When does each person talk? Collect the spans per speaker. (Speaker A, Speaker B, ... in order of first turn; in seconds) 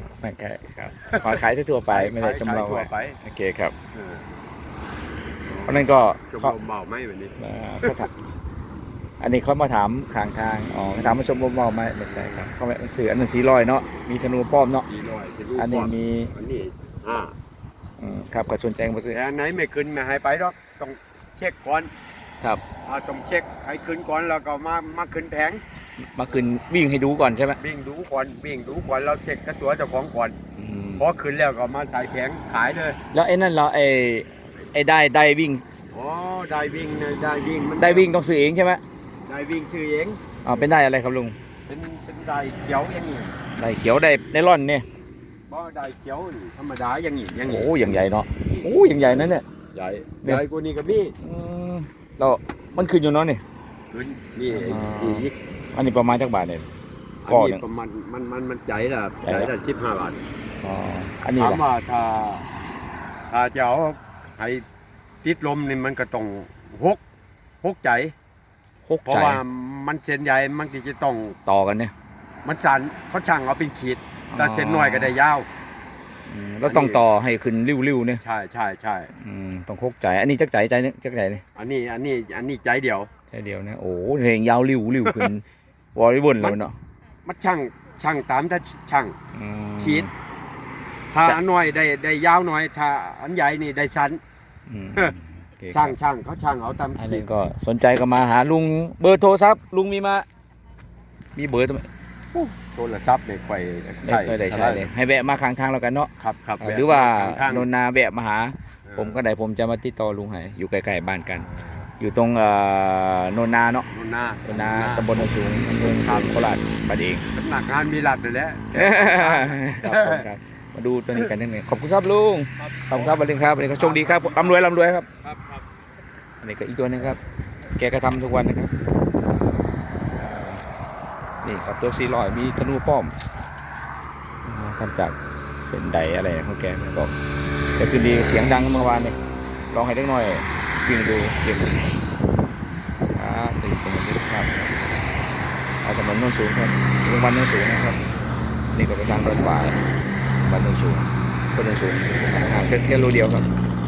Speaker A: 0.2-3.7, 5.7-6.5, 7.4-8.1, 9.2-14.8, 15.6-16.3, 18.0-19.2, 26.1-27.6, 30.6-31.0, 33.1-35.6, 37.8-38.8, 40.4-41.3, 43.6-44.8, 47.5-49.4, 51.2-53.4, 54.5-56.6, 57.3-57.6, 59.2-59.5, 60.6-61.6, 68.9-69.4, 71.5-71.9, 74.3-75.1, 76.3-78.2, 79.2-81.4, 83.3-85.4, 85.9-86.7, 89.3-90.1, 94.7-96.0, 97.0-100.2, 101.3-102.4, 104.0-111.5, 112.0-113.8, 114.4-117.2, 118.7-125.1, 126.4-127.2, 127.8-128.7, 131.4-133.1, 134.4-137.1, 137.8-139.2, 139.7-142.0, 143.1-144.5, 145.8-148.0, 148.7-149.8, 150.4-153.5
Speaker B: 1.1-3.2, 3.9-4.2, 5.5-8.1, 12.1-12.5, 14.8-17.3, 19.1-21.9, 22.8-25.6, 27.6-30.3, 31.0-33.0, 35.9-38.1, 39.2-40.2, 41.6-43.4, 45.5-51.1, 53.9-55.3, 57.2-60.2, 61.3-62.5, 63.3-64.6, 65.2-67.0, 67.6-68.1, 69.0-71.4, 72.4-75.5, 76.7-77.0, 78.2-79.1, 81.5-83.1, 87.2-89.2, 89.8-90.1, 91.1-94.2, 95.7-97.3, 102.6-104.9, 106.2-107.7, 108.8-109.2, 111.4-111.9, 113.9-116.5, 117.3-120.2, 122.6-123.2, 123.7-124.7, 125.2-125.7